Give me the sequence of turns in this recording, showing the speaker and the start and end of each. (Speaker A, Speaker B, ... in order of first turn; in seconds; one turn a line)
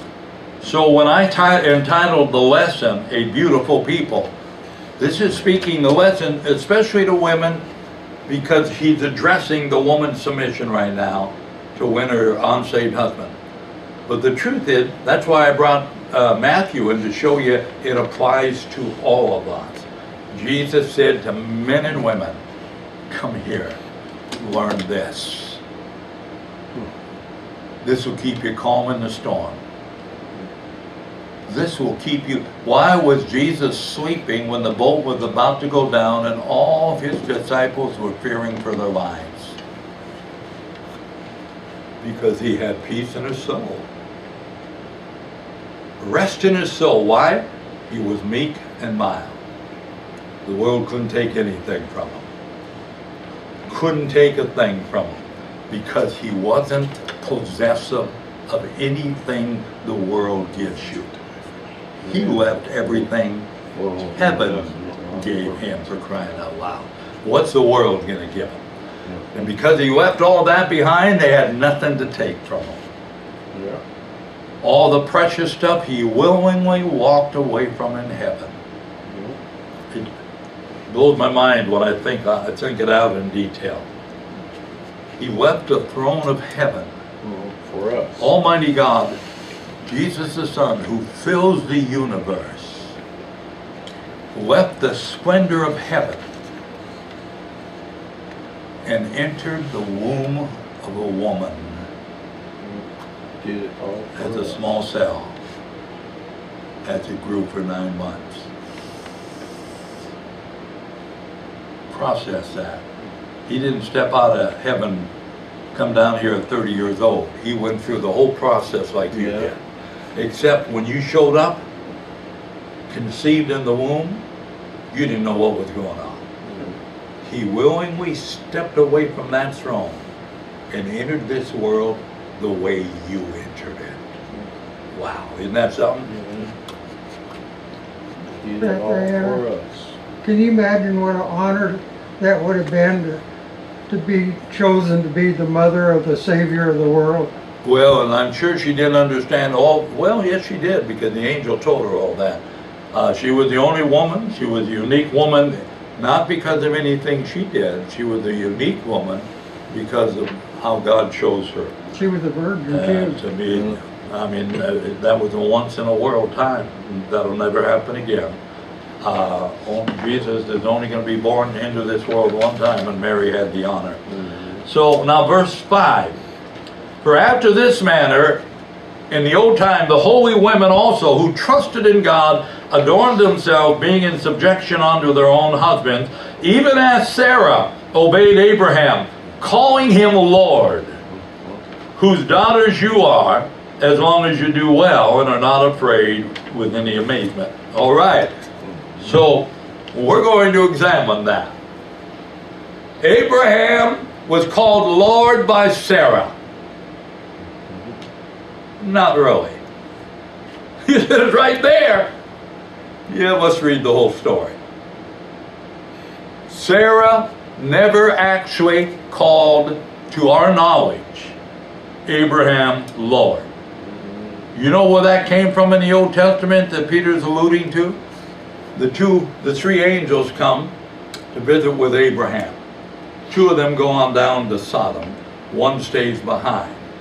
Speaker A: 0.6-4.3
Speaker A: 5.0-7.6
Speaker A: 8.3-13.3
Speaker A: 14.1-22.4
Speaker A: 23.1-23.8
Speaker A: 24.4-25.6
Speaker A: 27.8-29.6
Speaker A: 31.5-39.6
Speaker A: 42.0-43.8
Speaker A: 46.0-49.4
Speaker A: 50.4-52.2
Speaker A: 53.7-61.1
Speaker A: 62.0-63.5
Speaker B: 63.7-65.5
Speaker A: 64.1-68.6
Speaker B: 69.1-69.5
Speaker A: 69.3-72.8
Speaker B: 73.5-73.8
Speaker A: 74.6-78.5
Speaker B: 79.1-79.3
Speaker A: 80.9-83.8
Speaker A: 85.2-86.9
Speaker B: 87.2-88.3
Speaker A: 88.2-89.2
Speaker A: 89.8-92.9
Speaker A: 94.3-96.2
Speaker A: 98.8-101.9
Speaker B: 103.4-104.6
Speaker A: 104.2-105.3
Speaker A: 106.8-108.5
Speaker A: 111.9-112.8
Speaker A: 113.5-115.1
Speaker A: 115.7-119.6
Speaker B: 119.1-119.5
Speaker A: 120.2-121.6
Speaker A: 122.9-124.2
Speaker A: 124.9-126.2
Speaker B: 126.4-126.8
Speaker A: 127.2-130.0
Speaker A: 130.7-134.0
Speaker A: 134.9-136.1
Speaker B: 136.1-136.5
Speaker B: 138.2-139.9
Speaker C: 138.6-139.4
Speaker C: 140.2-143.2
Speaker C: 143.9-147.3
Speaker A: 147.6-161.7
Speaker C: 161.9-163.2
Speaker A: 162.7-168.4
Speaker A: 169.0-174.0
Speaker A: 174.6-176.2
Speaker A: 177.0-178.4
Speaker A: 179.1-191.0
Speaker A: 192.0-198.3
Speaker A: 199.0-201.5
Speaker A: 203.0-206.3
Speaker A: 208.8-209.6
Speaker A: 210.8-212.1
Speaker A: 213.1-214.6
Speaker A: 216.5-221.3
Speaker A: 222.1-223.5
Speaker A: 224.5-228.0
Speaker A: 228.7-230.7
Speaker A: 231.3-232.6
Speaker A: 233.3-236.8